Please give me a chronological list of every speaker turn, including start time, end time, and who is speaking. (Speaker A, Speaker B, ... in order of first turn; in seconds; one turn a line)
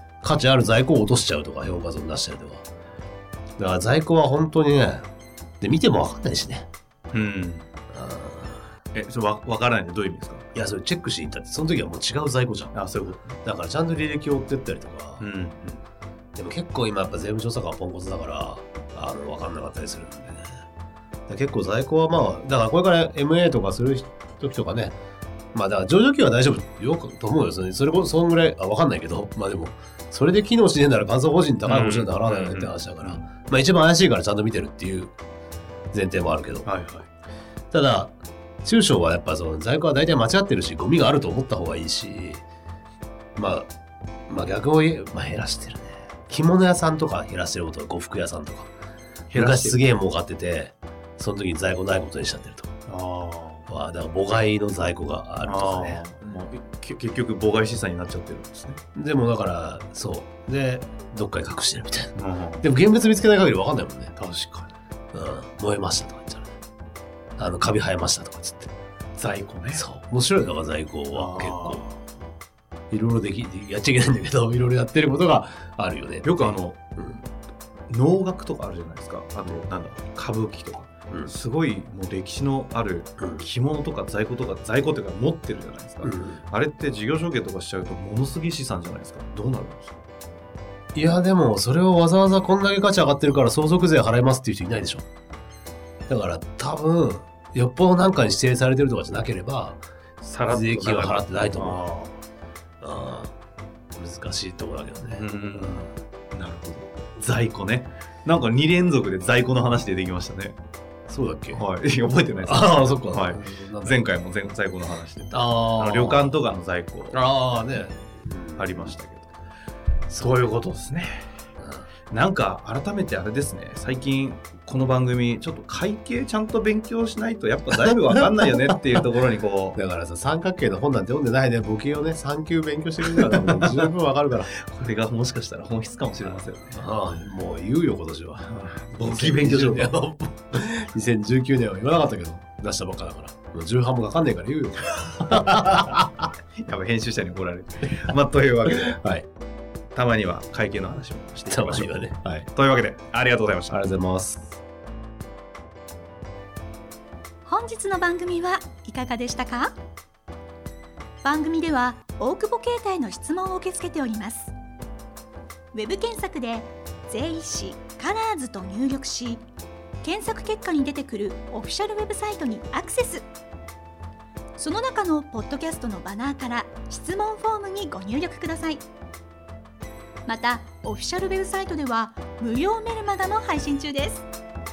Speaker A: 0.2-2.6
Speaker A: 3.6-5.1
Speaker A: 5.6-6.7
Speaker B: 7.1-7.6
Speaker A: 7.9-8.6
Speaker B: 8.9-10.4
Speaker A: 10.5-12.7
Speaker B: 12.7-13.3
Speaker A: 13.4-15.2
Speaker B: 15.2-15.8
Speaker A: 16.4-20.4
Speaker A: 21.3-25.0
Speaker A: 25.5-35.1
Speaker B: 31.6-33.3
Speaker A: 35.9-36.7
Speaker B: 36.6-37.1
Speaker A: 37.7-42.4
Speaker A: 43.4-43.7
Speaker A: 44.3-48.7
Speaker B: 49.3-49.8
Speaker A: 49.3-52.7
Speaker B: 52.9-53.7
Speaker A: 53.7-56.0
Speaker B: 55.4-58.8
Speaker A: 58.9-64.1
Speaker B: 62.1-62.6
Speaker B: 64.2-64.7
Speaker A: 65.1-66.5
Speaker A: 67.4-68.7
Speaker B: 69.2-69.8
Speaker A: 69.7-71.8
Speaker B: 71.1-72.0
Speaker A: 72.9-77.2
Speaker B: 76.2-76.8
Speaker B: 77.9-89.9
Speaker A: 86.0-86.4
Speaker A: 90.9-95.0
Speaker A: 96.1-99.8
Speaker B: 100.2-102.2
Speaker A: 100.4-101.8
Speaker A: 102.8-103.3
Speaker A: 104.0-105.2
Speaker B: 105.1-110.6
Speaker A: 111.1-111.6
Speaker B: 111.5-117.2
Speaker A: 112.4-114.0
Speaker A: 115.3-116.4
Speaker A: 117.1-118.9
Speaker B: 118.6-119.3
Speaker B: 120.1-121.3
Speaker A: 121.6-121.8
Speaker B: 122.1-129.8
Speaker A: 128.1-128.8
Speaker A: 129.7-134.5
Speaker B: 133.0-133.9
Speaker B: 134.5-136.8
Speaker A: 136.7-138.5
Speaker B: 138.4-139.9
Speaker A: 139.0-146.1
Speaker B: 145.1-146.1
Speaker B: 146.6-149.0
Speaker A: 148.7-149.2
Speaker B: 149.9-153.8
Speaker A: 151.5-152.5
Speaker A: 153.7-154.5
Speaker C: 157.4-159.7
Speaker C: 161.2-164.5
Speaker C: 165.7-169.4
Speaker C: 170.0-173.3
Speaker C: 174.6-178.8
Speaker C: 180.2-184.2